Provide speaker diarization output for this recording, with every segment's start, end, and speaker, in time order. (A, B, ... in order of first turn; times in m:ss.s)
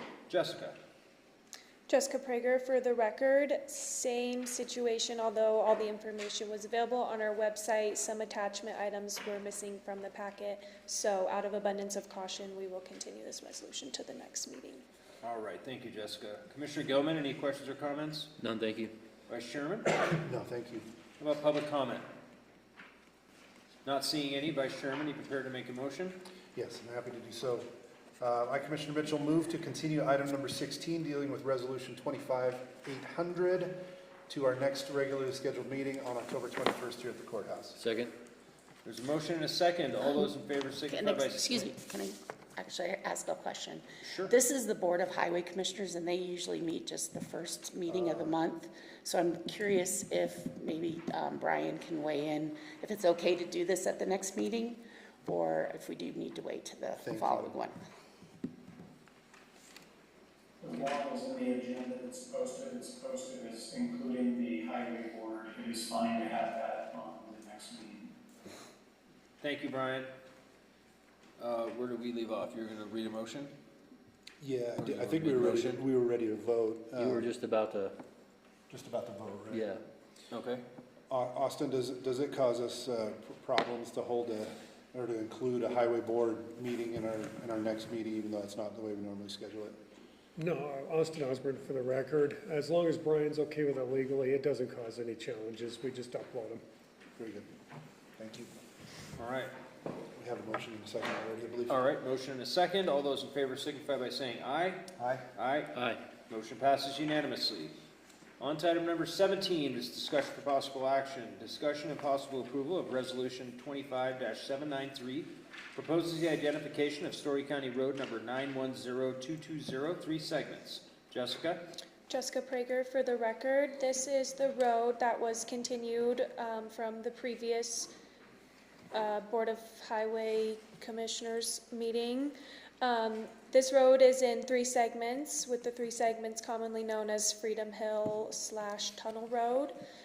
0:00.3-0:00.8 A
0:01.9-0:14.8 B
0:15.2-0:18.3 A
0:18.4-0:18.9 C
0:19.3-0:19.9 A
0:20.0-0:20.9 D
0:21.2-0:22.0 A
0:23.8-0:26.2 A
0:26.6-0:27.7 D
0:28.2-0:33.8 D
0:34.3-0:37.8 D
0:37.8-0:38.1 C
0:38.8-0:41.7 A
0:40.9-0:57.8 E
0:44.0-0:44.3 A
0:57.0-0:57.6 D
1:00.6-1:08.1 F
1:09.4-1:10.1 A
1:11.4-1:13.5 A
1:14.4-1:17.3 D
1:14.8-1:15.8 A
1:17.0-1:18.0 C
1:18.7-1:19.7 D
1:19.5-1:19.8 C
1:20.3-1:20.6 A
1:21.1-1:29.8 D
1:30.4-1:36.6 G
1:37.2-1:37.5 D
1:38.2-1:38.5 D
1:39.2-1:39.5 A
1:40.2-1:41.8 D
1:41.7-1:44.8 A
1:45.0-1:45.3 D
1:45.4-1:45.7 A
1:45.7-1:46.0 C
1:46.3-1:47.7 A
1:48.4-2:01.6 A
2:02.1-2:07.9 B
2:08.9-2:19.7 B